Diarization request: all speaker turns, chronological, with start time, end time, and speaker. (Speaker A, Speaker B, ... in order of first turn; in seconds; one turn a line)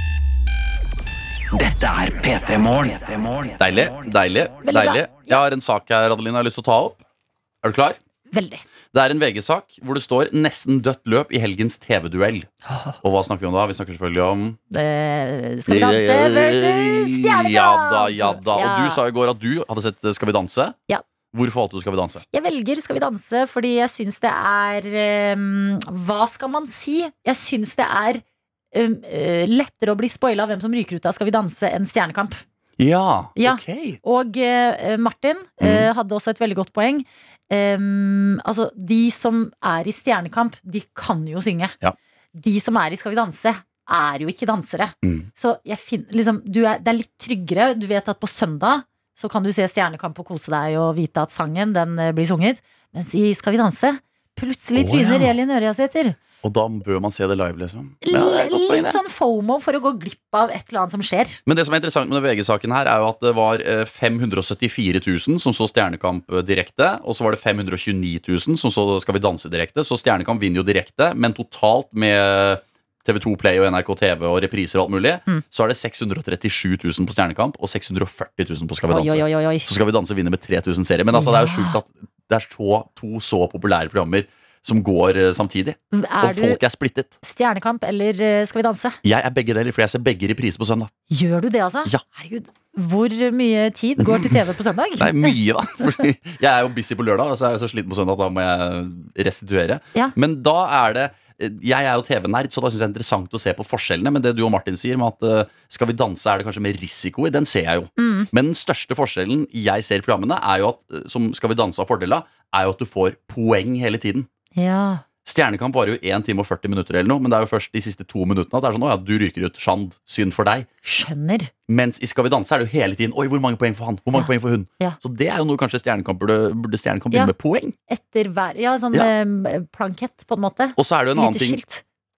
Speaker A: 1.5-4.1
Speaker B: 3.6-7.0
Speaker C: 4.6-5.4
Speaker B: 7.6-8.0
Speaker C: 8.3-8.6
Speaker B: 8.9-14.6
Speaker C: 12.6-13.0
Speaker C: 14.7-19.0
Speaker B: 15.7-20.8
Speaker B: 21.3-22.2
Speaker C: 22.3-32.4
Speaker B: 32.8-34.0
Speaker C: 33.4-41.8
Speaker B: 35.6-35.9
Speaker C: 42.3-56.2
Speaker B: 45.0-45.3
Speaker B: 54.7-55.3
Speaker B: 56.4-59.0
Speaker C: 58.0-61.4
Speaker B: 61.5-87.1
Speaker C: 78.9-79.7
Speaker C: 81.1-81.8
Speaker C: 85.9-86.6
Speaker C: 87.2-89.0
Speaker B: 89.0-90.9
Speaker C: 91.1-95.3
Speaker B: 94.0-94.4
Speaker B: 95.0-114.3
Speaker C: 108.0-108.3
Speaker C: 114.5-115.0
Speaker B: 115.2-120.7
Speaker C: 120.8-121.5
Speaker B: 121.7-127.8
Speaker C: 124.1-125.0
Speaker C: 127.9-131.8
Speaker B: 130.8-131.6